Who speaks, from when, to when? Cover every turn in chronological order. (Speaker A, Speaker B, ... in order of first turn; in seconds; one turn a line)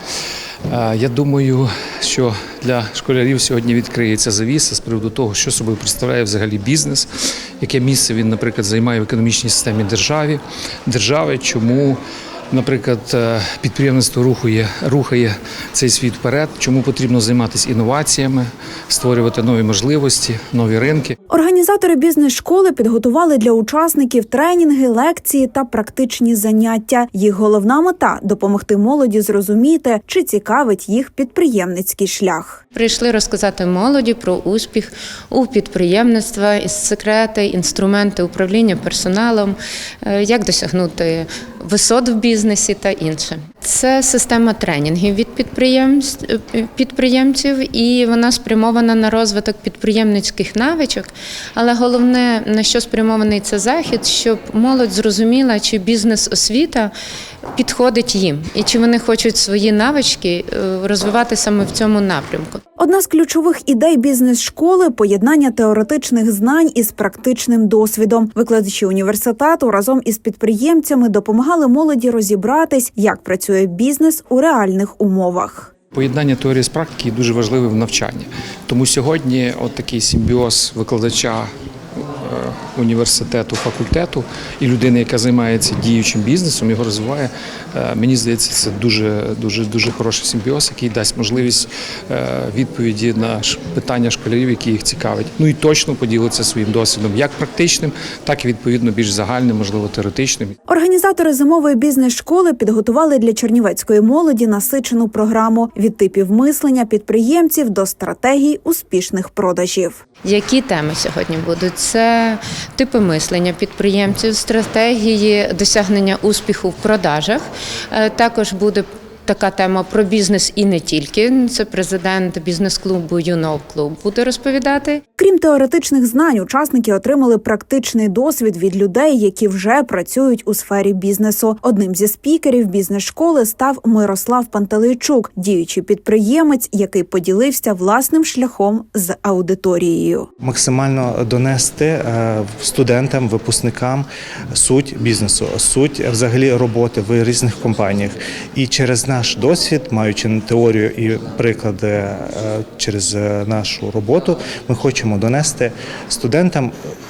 Speaker A: 0.7-7.1
Speaker A: 7.6-12.0
Speaker A: 12.5-21.1
Speaker B: 21.3-32.6
Speaker C: 32.7-56.9
Speaker C: 57.5-62.6
Speaker B: 62.8-75.7
Speaker A: 75.9-100.5
Speaker B: 100.7-110.0
Speaker C: 110.2-125.0
Speaker B: 125.2-140.3
Speaker D: 140.4-156.7